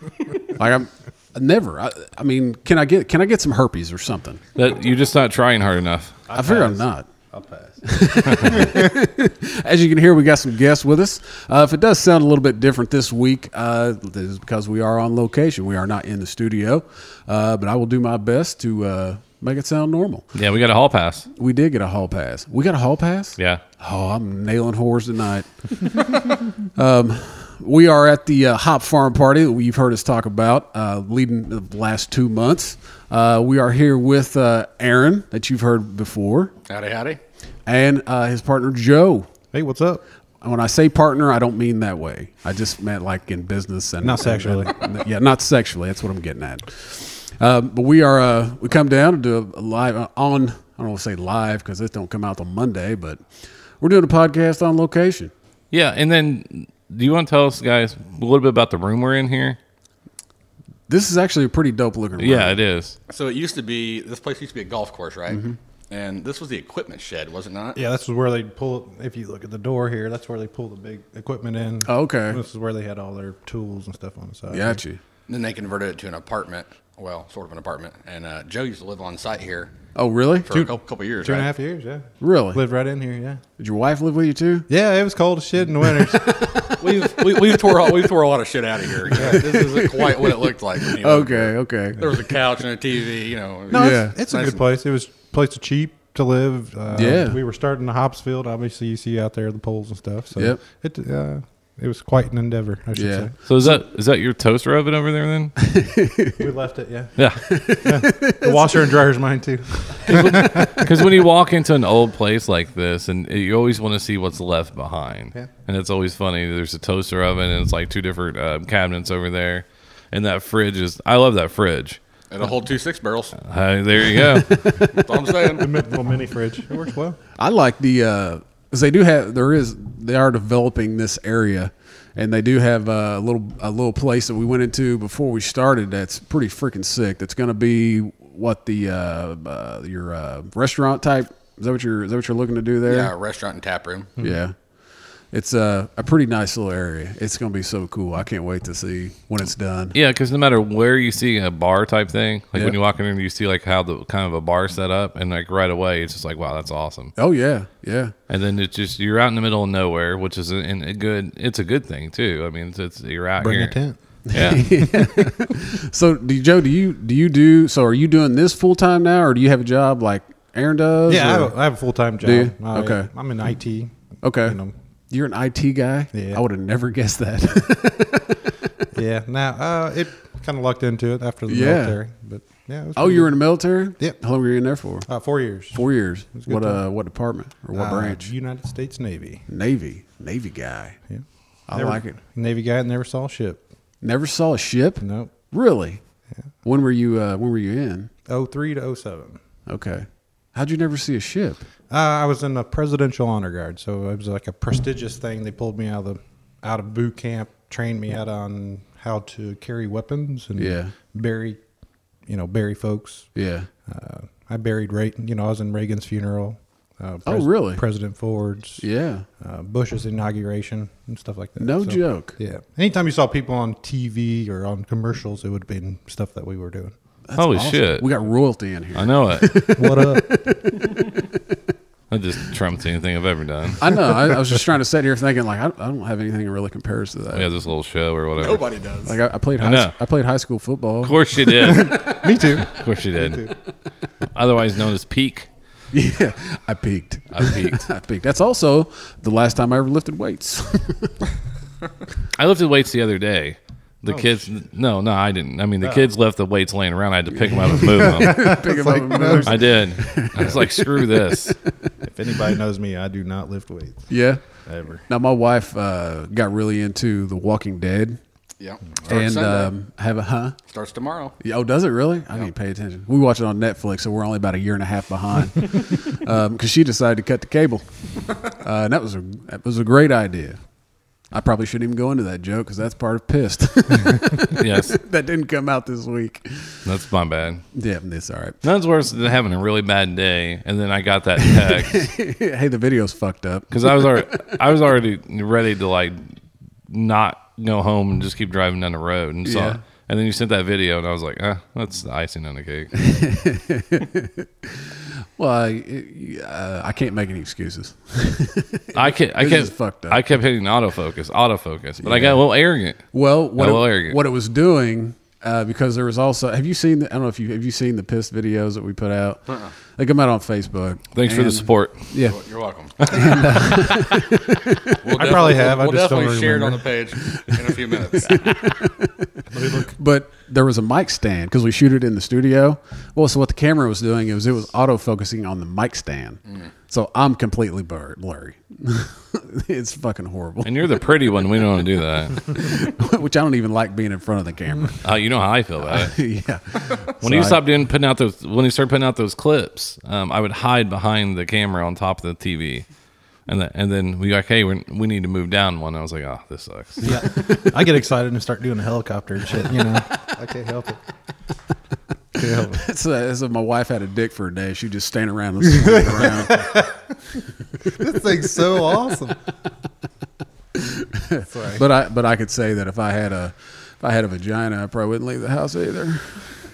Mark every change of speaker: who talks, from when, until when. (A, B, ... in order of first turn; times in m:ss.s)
0:00.5-0:04.4 A
0:04.5-0:06.2 B
0:06.3-0:08.7 C
0:06.3-0:07.1 A
0:07.8-0:20.3 A
0:20.3-0:21.3 B
0:21.3-0:36.5 A
0:23.4-0:23.6 B
0:36.7-0:37.2 D
0:37.7-0:39.3 A
0:39.5-0:40.0 C
0:40.4-0:53.2 A
0:44.0-0:44.7 C
0:53.8-0:55.3 A
0:55.7-0:59.6 B
1:00.9-1:02.6 A
1:02.2-1:03.0 B
1:03.1-1:07.8 D
1:05.3-1:05.6 A
1:07.8-1:14.8 C
1:11.8-1:12.4 A
1:14.5-1:15.0 A
1:15.3-1:19.7 D
1:19.9-1:20.7 A
1:20.5-1:21.5 D
1:21.2-1:23.4 C
1:22.2-1:22.6 A
1:23.6-1:24.7 A
1:24.7-1:26.4 C
1:25.8-1:28.0 A
1:26.6-1:34.6 D
1:29.1-1:32.4 A
1:29.1-1:29.5 C
1:33.7-1:43.7 C
1:33.7-1:34.2 A
1:36.9-1:37.4 A
1:42.9-1:43.7 A
1:43.4-1:45.5 B
1:45.6-1:46.4 A
1:46.4-1:47.2 C
1:47.2-1:47.4 B
1:47.4-1:49.0 A
1:47.8-1:51.0 C
1:50.0-2:02.0 B
2:02.3-2:03.4 D
2:03.4-2:04.6 B
2:04.1-2:05.1 A
2:04.9-2:05.7 D
2:05.6-2:07.2 C
2:07.4-2:23.1 A
2:22.8-2:24.2 D
2:24.2-2:24.5 A
2:25.3-2:30.0 A
2:29.9-2:37.1 B
2:37.2-2:38.1 A
2:38.3-2:43.8 B
2:43.4-2:44.0 C
2:44.3-2:51.5 A
2:44.3-2:44.9 B
2:51.1-2:54.7 C
2:52.2-2:53.1 A
2:54.2-2:54.6 A
2:55.1-2:58.5 A
2:56.1-2:56.4 C
2:58.9-3:03.4 C
3:01.5-3:02.0 A
3:03.0-3:05.1 A
3:05.0-3:06.8 C
3:05.7-3:08.3 A
3:07.7-3:09.4 C
3:09.5-3:11.0 A
3:11.1-3:13.6 C
3:11.7-3:12.2 A
3:14.0-3:16.0 A
3:15.0-3:15.3 C
3:16.6-3:18.1 A
3:18.3-3:19.4 C
3:19.7-3:21.6 A
3:21.9-3:31.6 C
3:30.6-3:30.9 A
3:32.2-3:33.3 C
3:33.4-3:33.7 A
3:33.8-3:38.8 C
3:37.2-3:37.8 A
3:38.8-3:39.2 A
3:39.4-3:46.9 C
3:41.6-3:42.4 A
3:47.3-3:51.3 A
3:47.4-3:48.1 B
3:48.9-3:49.8 B
3:49.8-3:50.3 C
3:52.1-3:53.9 B
3:53.8-3:57.5 A
3:57.3-3:58.6 B
3:58.4-3:59.2 D
3:59.0-4:02.1 A
3:59.6-3:59.9 B
4:01.0-4:03.5 B
4:01.5-4:03.5 C
4:04.3-4:05.5 B
4:05.9-4:11.2 A
4:07.3-4:07.9 B
4:12.3-4:18.6 B
4:14.1-4:14.5 C
4:17.7-4:21.5 A
4:18.1-4:19.7 C
4:19.4-4:21.6 B
4:22.0-4:24.1 C
4:24.1-4:24.4 A
4:24.6-4:25.0 C
4:25.0-4:28.2 A
4:28.6-4:29.7 D
4:29.1-4:30.5 A
4:30.7-4:31.4 D
4:31.4-4:40.6 A
4:41.3-4:46.8 A
4:44.6-4:45.0 B
4:46.8-4:47.6 B
4:47.7-4:48.6 A
4:48.6-4:52.1 B
4:51.4-4:54.6 A
4:53.7-4:56.2 B
4:56.9-5:02.9 B
4:59.4-4:59.8 A
5:03.0-5:10.2 A
5:08.9-5:13.0 B
5:12.0-5:12.5 A
5:13.1-5:19.4 A
5:13.6-5:14.2 B
5:19.9-5:22.4 A
5:21.1-5:22.1 B
5:22.2-5:23.6 D
5:23.0-5:23.6 B
5:23.0-5:25.0 A
5:25.0-5:28.6 D
5:25.1-5:26.9 C
5:28.2-5:29.3 A
5:29.5-5:30.0 C
5:29.9-5:41.1 A
5:40.6-5:42.5 B
5:42.4-5:45.0 A
5:45.0-5:46.1 B
5:45.8-5:47.6 A
5:47.2-5:52.8 B
5:53.5-5:57.1 B
5:57.0-6:01.0 C
5:57.0-5:57.5 A
6:02.4-6:02.8 C
6:02.7-6:06.8 A
6:06.1-6:06.9 C
6:07.9-6:09.4 C
6:10.8-6:16.5 A
6:11.5-6:11.8 C